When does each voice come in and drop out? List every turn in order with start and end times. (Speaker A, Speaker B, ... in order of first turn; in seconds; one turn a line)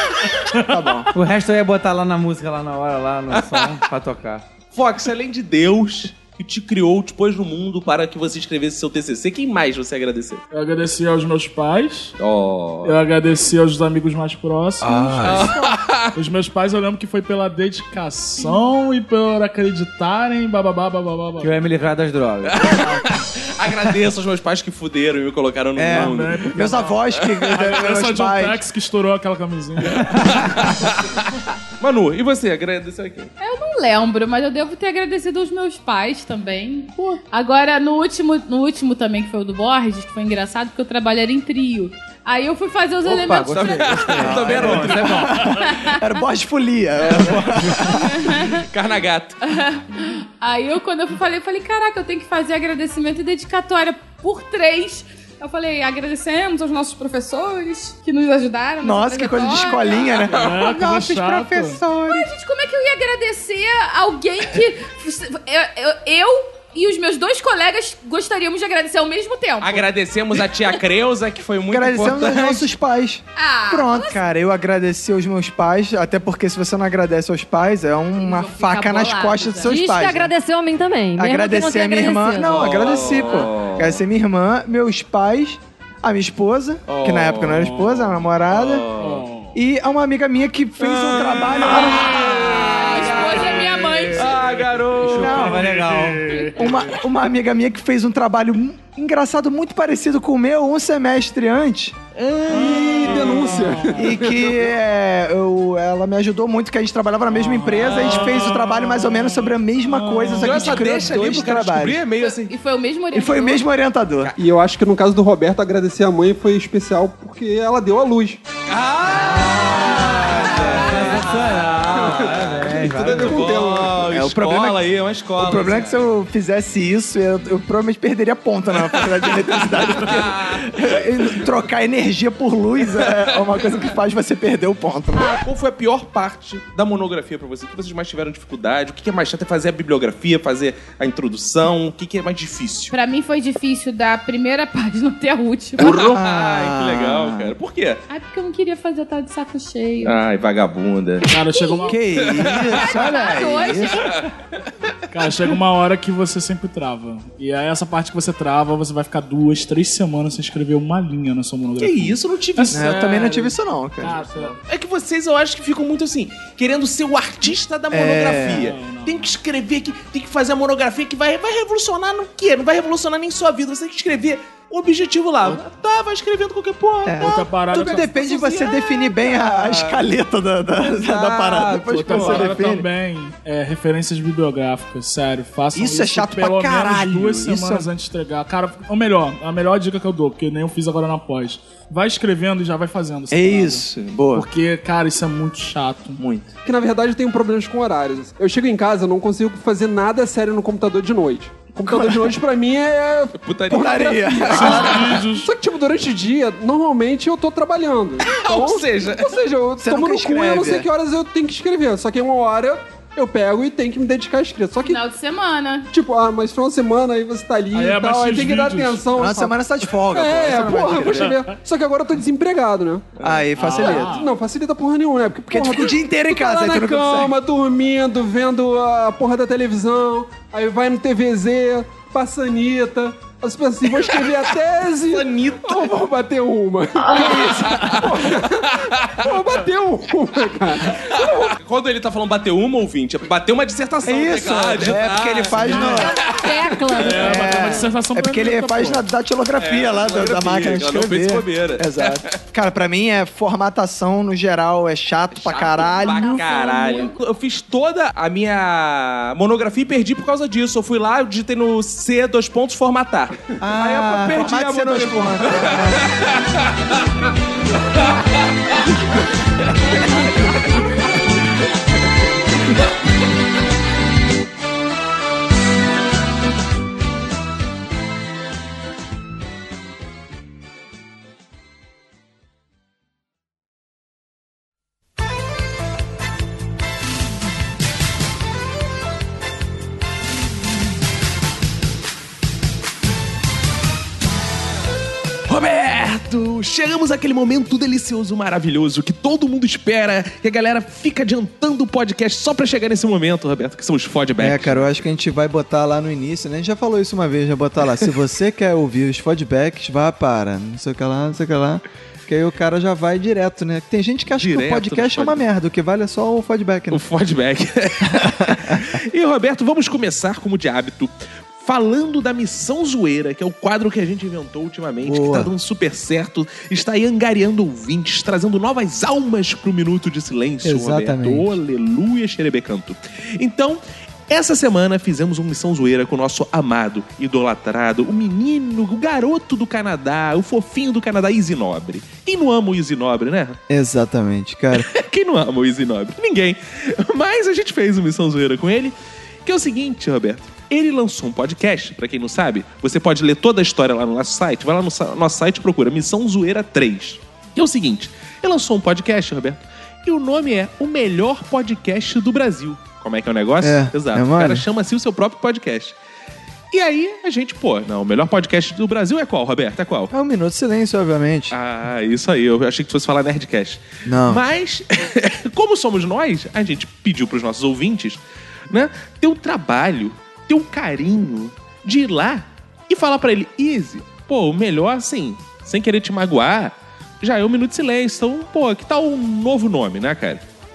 Speaker A: 0.5-1.0
Speaker B: 1.1-4.4
Speaker C: 3.3-3.8
Speaker C: 4.7-10.4
Speaker A: 10.5-12.1
Speaker C: 12.2-13.0
Speaker A: 12.8-15.6
Speaker C: 15.2-16.1
Speaker A: 16.1-21.6
Speaker B: 21.4-23.0
Speaker C: 22.4-27.4
Speaker A: 25.9-30.6
Speaker D: 26.7-28.4
Speaker C: 29.9-31.3
Speaker C: 31.8-33.3
Speaker E: 33.4-44.3
Speaker B: 43.0-45.5
Speaker C: 43.5-45.6
Speaker D: 44.4-44.9
Speaker E: 44.8-46.0
Speaker D: 46.0-47.9
Speaker C: 47.0-49.4
Speaker E: 47.8-48.6
Speaker E: 49.5-60.4
Speaker D: 58.8-62.2
Speaker A: 60.3-61.8
Speaker C: 60.4-60.7
Speaker E: 62.0-69.9
Speaker C: 69.6-72.7
Speaker E: 70.4-70.8
Speaker D: 71.7-80.3
Speaker E: 73.3-74.2
Speaker E: 78.1-79.7
Speaker F: 79.7-82.8
Speaker D: 81.2-88.8
Speaker C: 82.5-84.0
Speaker C: 86.9-87.8
Speaker A: 87.6-88.2
Speaker C: 88.5-89.2
Speaker A: 89.0-89.5
Speaker D: 89.5-92.0
Speaker C: 90.8-95.7
Speaker A: 91.2-92.1
Speaker E: 91.8-94.4
Speaker A: 92.9-97.0
Speaker B: 95.1-96.4
Speaker D: 95.2-95.5
Speaker D: 96.6-101.9
Speaker C: 102.1-103.7
Speaker A: 102.5-104.1
Speaker G: 103.0-104.7
Speaker D: 104.0-112.0
Speaker A: 107.3-111.3
Speaker C: 110.4-112.5
Speaker E: 112.2-113.7
Speaker D: 113.1-114.3
Speaker G: 114.4-118.4
Speaker C: 118.7-126.0
Speaker B: 119.3-119.8
Speaker B: 120.7-123.5
Speaker G: 121.8-124.1
Speaker D: 124.1-124.8
Speaker D: 125.4-135.3
Speaker C: 129.0-130.8
Speaker C: 133.0-133.8
Speaker C: 135.1-142.9
Speaker E: 142.9-146.0
Speaker C: 145.8-148.0
Speaker D: 146.0-147.5
Speaker E: 148.1-150.2
Speaker C: 150.0-151.3
Speaker A: 151.3-152.0
Speaker E: 151.5-152.0
Speaker D: 151.9-153.9
Speaker C: 152.2-154.3
Speaker E: 152.5-154.1
Speaker A: 155.1-164.6
Speaker C: 161.8-163.0
Speaker D: 162.7-164.1
Speaker C: 164.7-177.5
Speaker D: 167.9-168.6
Speaker A: 168.3-169.3
Speaker D: 177.1-182.8
Speaker A: 177.2-178.2
Speaker C: 178.1-180.1
Speaker C: 181.0-182.7
Speaker A: 181.5-196.2
Speaker D: 185.8-187.8
Speaker D: 193.3-194.4
Speaker G: 196.6-215.0
Speaker D: 201.9-202.2
Speaker C: 203.4-205.2
Speaker D: 203.7-204.8
Speaker A: 204.4-205.5
Speaker C: 208.2-209.4
Speaker D: 209.8-210.8
Speaker E: 214.8-215.9
Speaker G: 215.9-241.3
Speaker A: 217.7-219.1
Speaker D: 219.2-221.4
Speaker A: 221.2-221.6
Speaker D: 223.2-224.1
Speaker A: 223.5-224.3
Speaker D: 225.5-227.3
Speaker C: 235.1-235.9
Speaker C: 237.1-239.2
Speaker C: 240.9-247.8
Speaker D: 244.0-246.1
Speaker A: 245.6-246.1
Speaker F: 245.9-247.5
Speaker A: 246.9-249.1
Speaker D: 247.2-256.4
Speaker C: 249.6-252.3
Speaker C: 255.3-266.6
Speaker F: 256.2-257.1
Speaker E: 256.3-257.1
Speaker D: 263.6-266.0
Speaker C: 295.5-305.1
Speaker D: 304.4-317.0
Speaker C: 314.3-315.5
Speaker C: 316.9-343.6
Speaker D: 318.1-318.8
Speaker D: 325.0-325.5
Speaker D: 330.6-331.5
Speaker D: 343.7-344.9
Speaker C: 344.7-365.9
Speaker D: 363.6-364.6
Speaker C: 366.7-370.1
Speaker D: 370.1-371.5
Speaker C: 371.5-378.2
Speaker D: 374.0-374.4
Speaker C: 378.7-390.4